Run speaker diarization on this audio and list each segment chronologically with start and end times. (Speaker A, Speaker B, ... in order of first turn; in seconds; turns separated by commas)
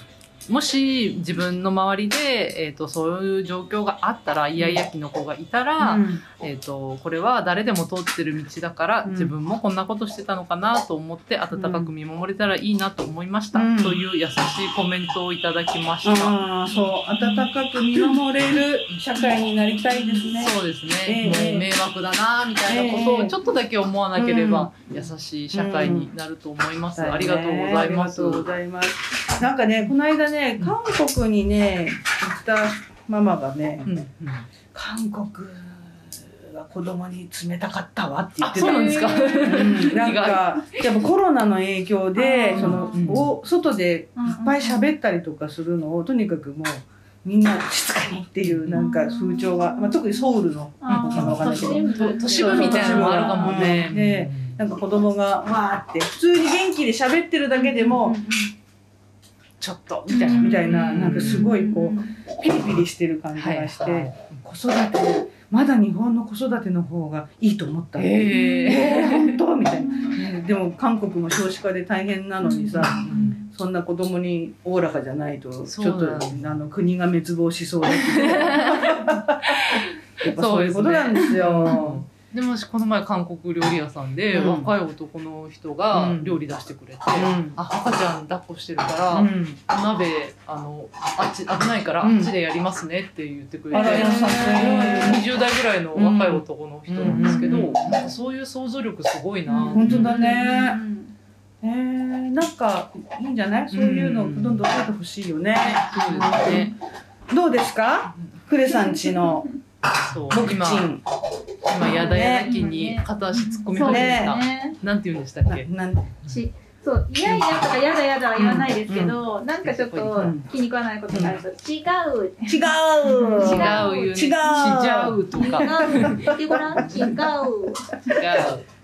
Speaker A: 0.5-16.4, Speaker B: 5.8-6.2, Speaker B: 9.0-9.3, Speaker B: 11.5-11.9, Speaker B: 13.5-14.0, Speaker B: 16.0-21.7, Speaker A: 20.3-28.5, Speaker B: 22.6-23.4, Speaker B: 24.1-26.1, Speaker B: 26.9-33.9, Speaker A: 33.8-34.5, Speaker B: 34.7-58.2, Speaker A: 38.4-40.8, Speaker C: 38.5-40.0, Speaker C: 42.1-43.1, Speaker A: 42.5-43.3, Speaker C: 44.2-44.9, Speaker A: 48.5-48.9, Speaker C: 48.7-50.0, Speaker C: 50.8-53.8, Speaker A: 51.1-54.6, Speaker C: 57.6-58.5, Speaker A: 59.6-61.5, Speaker C: 60.1-62.2, Speaker B: 60.3-82.0, Speaker A: 63.3-64.3, Speaker A: 68.0-69.4, Speaker C: 68.3-69.2, Speaker C: 69.8-70.1, Speaker C: 72.7-73.4, Speaker A: 72.8-73.4, Speaker A: 75.7-76.6, Speaker A: 77.9-100.2, Speaker B: 84.3-84.7, Speaker B: 85.9-86.4, Speaker B: 87.1-87.6, Speaker B: 89.1-89.6, Speaker B: 92.0-92.3, Speaker C: 93.7-94.4, Speaker B: 93.7-95.3, Speaker B: 95.9-98.1, Speaker C: 99.5-101.1, Speaker B: 99.7-100.8, Speaker B: 101.6-106.7, Speaker A: 103.7-104.7, Speaker A: 105.6-106.7, Speaker B: 107.3-109.5, Speaker C: 108.8-109.3, Speaker A: 110.1-110.9, Speaker B: 110.3-111.0, Speaker A: 111.7-115.7, Speaker B: 111.8-112.5, Speaker C: 111.9-114.8, Speaker B: 113.8-114.4, Speaker B: 115.5-116.2, Speaker C: 116.2-127.7, Speaker B: 118.4-119.2, Speaker A: 119.6-120.4, Speaker B: 120.2-120.5, Speaker B: 121.1-121.4, Speaker B: 122.5-127.3, Speaker A: 123.3-127.1, Speaker A: 128.1-128.6